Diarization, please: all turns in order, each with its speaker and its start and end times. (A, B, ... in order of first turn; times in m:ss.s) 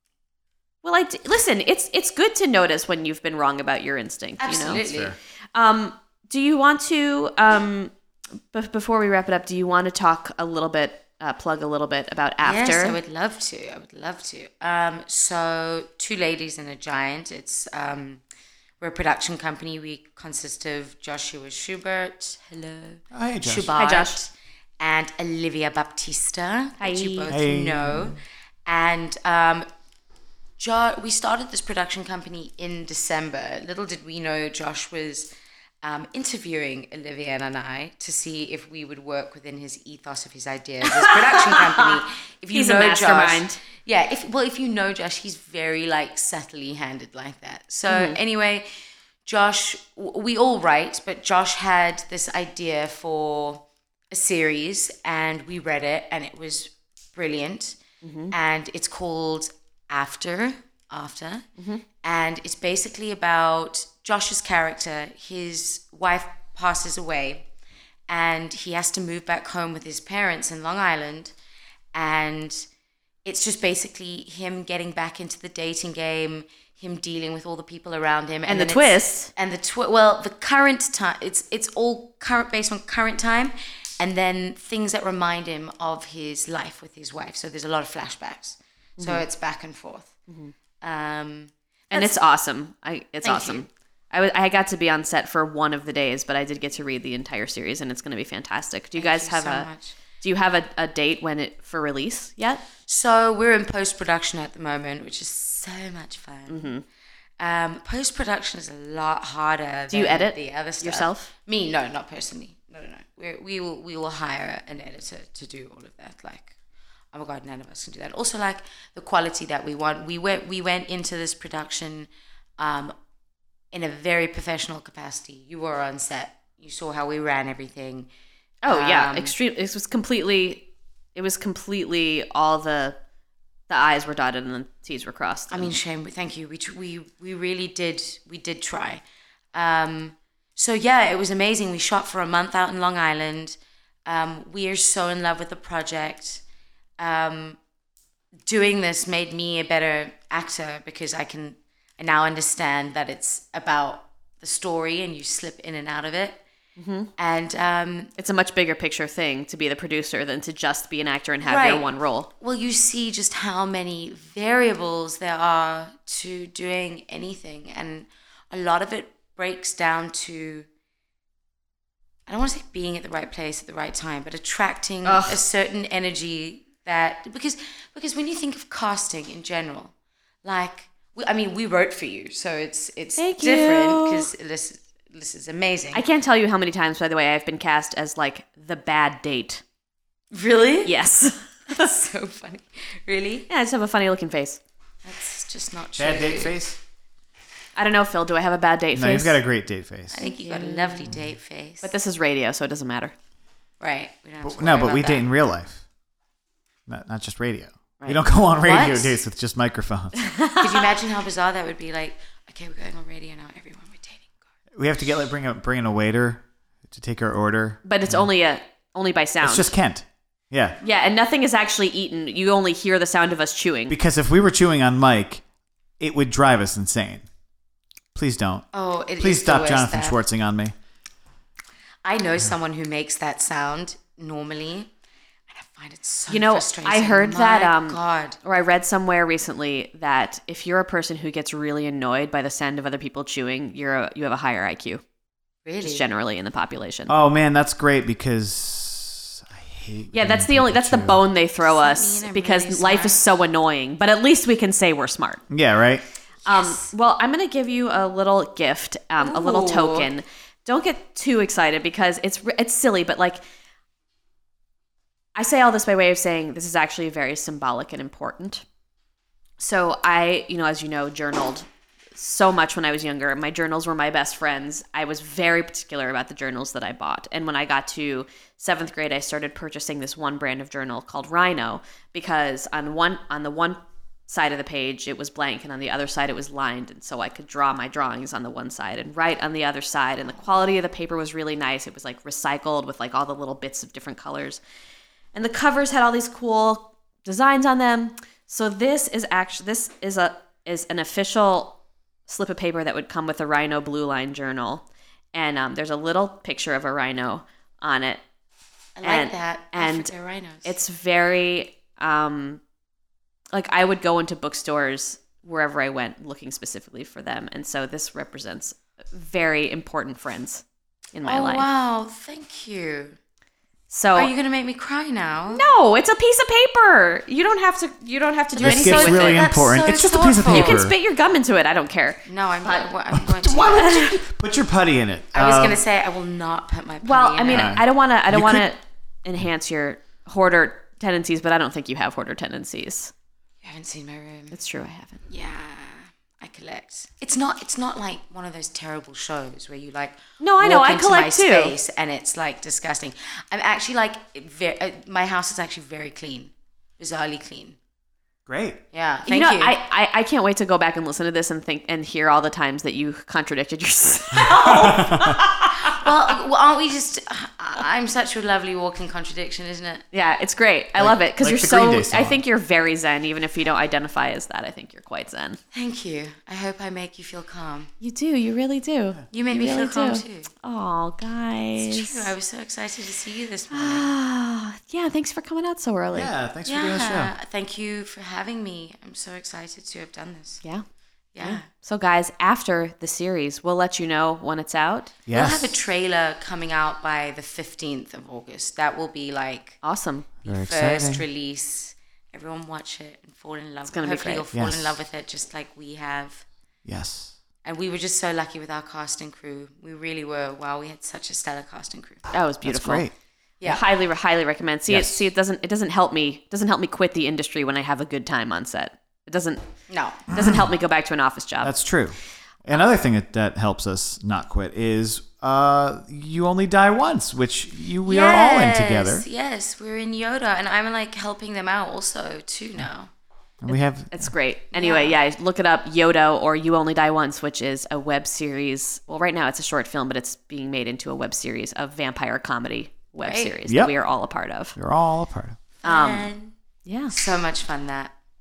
0:00.8-0:04.8 A
0:04.4-0:05.2 B
0:04.7-0:05.2 C
0:05.5-0:07.9 A
0:08.5-0:13.0 A
0:12.4-0:18.2 B
0:18.8-0:29.7 B
0:23.1-0:23.7 C
0:23.8-0:24.2 A
0:26.8-0:27.3 A
0:27.3-0:28.2 C
0:30.6-0:35.3 B
0:35.8-0:48.7 B
0:40.8-0:41.9 A
0:42.5-0:43.6 A
0:47.9-0:48.2 A
0:49.2-0:57.8 B
0:58.0-0:58.3 A
0:58.3-1:01.4 B
1:02.0-1:07.4 B
1:08.1-1:11.3 B
1:11.9-1:12.6 B
1:13.2-1:30.1 B
1:18.5-1:19.3 A
1:29.0-1:29.2 A
1:30.8-1:32.2 B
1:31.9-1:39.7 A
1:33.2-1:33.6 B
1:39.0-1:40.0 B
1:40.2-1:42.6 A
1:42.8-1:46.7 B
1:46.5-1:46.8 A
1:47.4-1:56.5 B
1:49.9-1:51.3 A
1:57.1-2:02.9 B
2:03.7-2:08.1 B
2:08.6-2:09.3 B
2:08.6-2:13.0 A
2:13.7-2:15.7 A
2:15.5-2:19.0 B
2:19.5-2:26.4 B
2:27.0-2:27.6 B
2:28.4-2:36.4 B
2:36.8-2:37.1 A
2:37.2-2:38.1 B
2:38.2-2:42.3 A
2:41.4-2:50.7 B
2:52.3-2:59.9 B
2:55.0-2:55.4 A
3:00.4-3:06.0 B
3:03.2-3:04.3 A
3:05.9-3:09.6 A
3:10.3-3:10.9 B
3:10.8-3:11.9 A
3:11.7-3:13.5 B
3:13.5-3:14.6 A
3:15.0-3:16.6 B
3:16.0-3:16.8 C
3:17.8-3:19.4 A
3:18.9-3:20.2 C
3:20.1-3:21.9 B
3:20.3-3:21.1 A
3:21.8-3:23.1 A
3:23.8-3:25.2 B
3:24.4-3:25.8 C
3:26.9-3:30.2 C
3:28.6-3:29.2 B
3:30.2-3:30.6 A
3:30.5-3:34.3 B
3:34.7-3:38.2 C
3:37.8-3:39.7 A
3:39.4-3:40.8 C
3:40.8-3:44.0 A
3:43.9-3:45.4 C
3:46.0-3:47.2 C
3:48.1-3:48.6 C
3:48.7-3:50.2 B
3:49.2-3:50.7 C
3:52.0-3:54.9 B
3:55.5-3:58.4 B
3:56.3-4:05.0 A
4:05.6-4:06.0 B
4:05.8-4:07.1 A
4:07.1-4:11.2 C
4:10.1-4:15.4 A
4:11.6-4:13.2 B
4:15.5-4:16.0 C
4:16.4-4:23.4 A
4:16.5-4:16.9 B
4:19.2-4:20.1 B
4:25.3-4:28.6 A
4:29.6-4:54.6 A
4:55.3-5:08.2 A
5:09.0-5:10.7 B
5:09.0-5:10.1 A
5:10.6-5:12.6 A
5:13.5-5:21.7 A
5:21.2-5:23.2 B
5:23.9-5:24.3 A
5:24.1-5:25.6 B
5:25.5-5:29.4 A
5:28.5-5:30.9 B
5:28.6-5:30.9 C
5:30.5-5:32.9 A
5:32.3-5:34.1 B
5:33.1-5:35.8 C
5:33.8-5:34.1 A
5:35.3-5:37.8 B
5:37.0-5:43.1 A
5:37.5-5:38.6 C
5:43.6-5:44.5 B
5:44.5-5:45.2 A
5:45.3-5:57.8 B
5:50.4-5:51.8 A
5:58.5-5:58.8 C
5:58.9-5:59.8 B
5:59.2-6:06.1 A
6:04.4-6:05.4 C
6:05.8-6:10.0 B
6:10.1-6:15.6 A
6:11.0-6:12.4 C
6:15.7-6:17.9 B
6:18.0-6:22.3 A
6:19.3-6:20.5 B
6:21.8-6:24.1 B
6:23.7-6:26.3 A
6:26.1-6:27.3 C
6:26.6-6:30.6 B
6:31.3-6:31.6 B
6:31.4-6:35.1 A
6:35.3-6:35.8 C
6:35.3-6:39.8 B
6:39.8-6:40.3 A
6:40.4-6:46.4 B
6:40.4-6:41.2 C
6:43.8-6:44.4 A
6:44.5-6:45.0 C
6:46.8-6:47.4 C
6:47.6-6:52.2 B
6:52.3-6:53.0 A
6:52.6-6:53.1 C
6:53.6-6:59.6 A
6:54.9-6:55.2 C
6:59.9-7:00.3 B
7:00.3-7:01.7 A
7:00.3-7:00.6 C
7:01.6-7:09.2 C
7:08.0-7:13.1 B
7:13.6-7:14.3 C
7:14.1-7:24.7 A
7:14.7-7:15.2 B
7:23.2-7:23.5 B
7:23.7-7:23.9 C
7:24.8-7:25.6 C
7:25.8-7:26.5 B
7:25.8-7:26.3 A
7:26.8-7:27.1 A
7:27.1-7:28.1 B